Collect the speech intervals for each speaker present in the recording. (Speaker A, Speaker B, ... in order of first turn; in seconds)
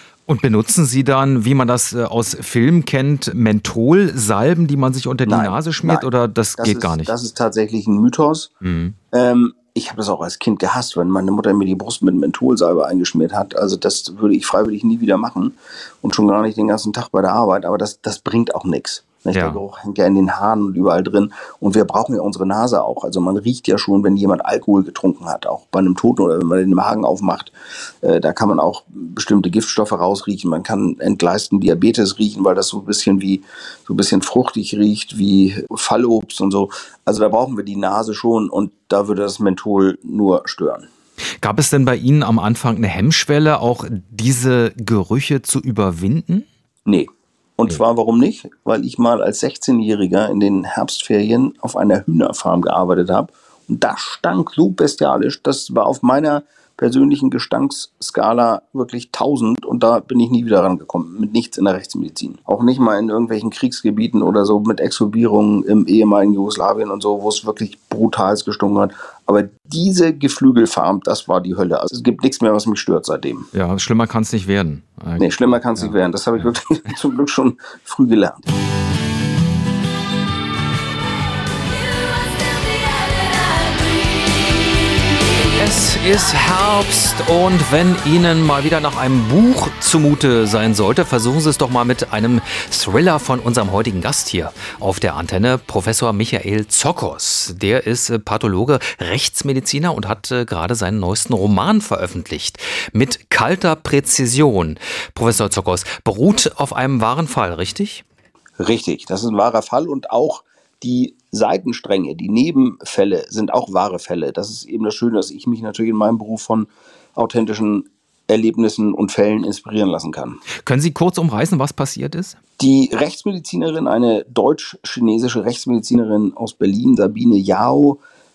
Speaker A: 0.3-7.1, 8.6-8.9, 19.3-19.6, 41.4-46.5, 73.5-76.5, 85.5-108.0, 120.7-122.4
Speaker B: 5.2-8.5, 9.1-40.9, 46.9-73.5, 75.2-78.5, 108.6-120.4, 122.6-128.0